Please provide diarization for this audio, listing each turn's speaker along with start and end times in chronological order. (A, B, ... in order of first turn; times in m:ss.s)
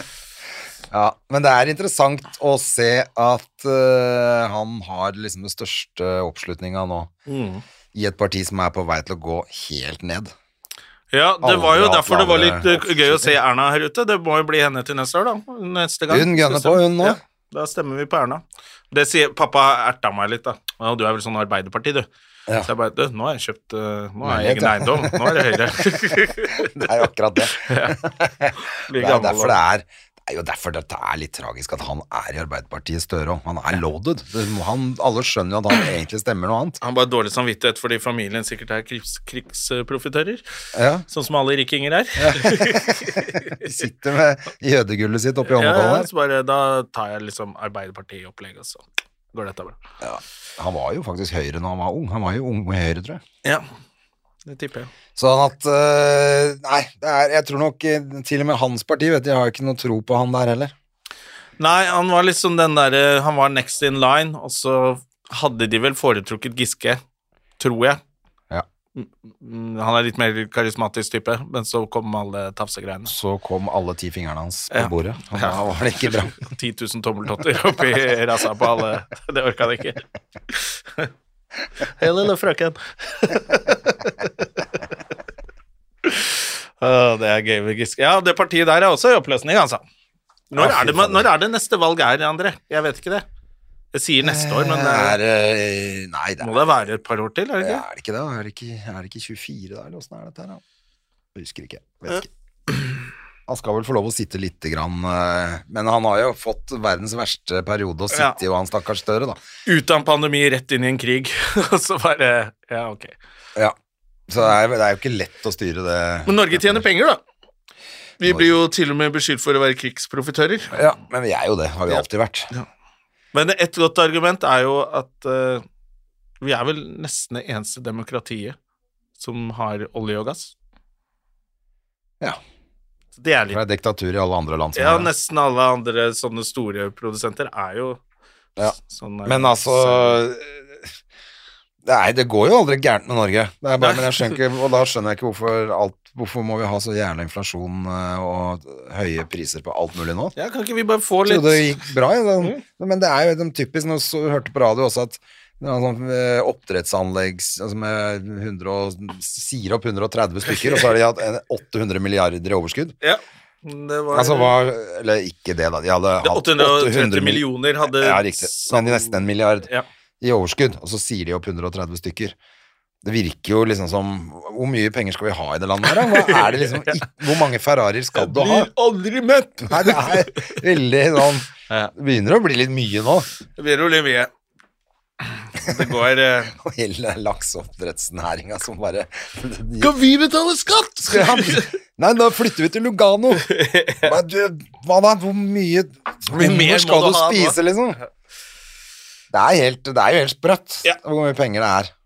0:00.9-0:07.1 A
0:07.3-0:07.6 B
0:07.9-0:10.3 A
0:11.1-0:22.1 B
0:11.4-0:13.4 A
0:16.1-0:17.2 A
0:22.6-0:26.9 B
0:24.2-0:25.6 A
0:26.4-0:36.8 A
0:27.5-0:28.0 B
0:28.6-0:29.6 B
0:36.8-0:40.4 B
0:40.7-0:41.0 A
0:41.1-0:43.8 B
0:42.2-0:46.1 A
0:45.4-0:49.8 B
0:50.0-0:53.2 A
0:54.5-0:54.9 B
0:55.2-1:00.7 A
1:01.6-1:07.0 B
1:07.6-1:08.0 B
1:09.0-1:13.1 B
1:13.1-1:16.4 A
1:14.7-1:21.1 B
1:22.0-1:24.4 B
1:26.0-1:29.8 B
1:30.5-1:33.2 B
1:30.6-1:31.3 A
1:33.9-1:35.2 B
1:34.2-1:36.6 A
1:36.4-1:37.8 B
1:37.6-1:40.6 A
1:41.4-1:42.3 A
1:43.5-1:49.4 A
1:48.1-1:48.4 B
1:49.7-1:53.1 B
1:54.3-1:56.8 A
1:56.3-1:57.2 B
1:58.2-2:00.8 B
2:00.7-2:02.5 A
2:01.9-2:02.7 B
2:03.3-2:05.6 B
2:06.4-2:08.6 B
2:09.2-2:10.5 B
2:13.2-2:13.6 B
2:13.5-2:15.1 A
2:14.8-2:18.0 B
2:18.7-2:20.2 B
2:19.3-2:20.7 A
2:21.8-2:30.3 A
2:23.8-2:24.2 B
2:30.4-2:31.8 B
2:31.2-2:43.0 A
2:40.5-2:40.8 B
2:43.0-2:44.5 B
2:44.1-2:52.4 A
2:46.2-2:49.9 B
2:53.0-2:58.7 A
2:56.0-2:57.0 B
2:58.2-3:00.5 B
2:59.7-3:03.3 A
3:03.6-3:04.3 B
3:05.6-3:06.5 B
3:06.5-3:09.9 A
3:09.8-3:11.7 B
3:11.1-3:13.5 A
3:13.4-3:14.2 B
3:14.0-3:18.0 A
3:16.3-3:17.6 B
3:19.3-3:21.9 A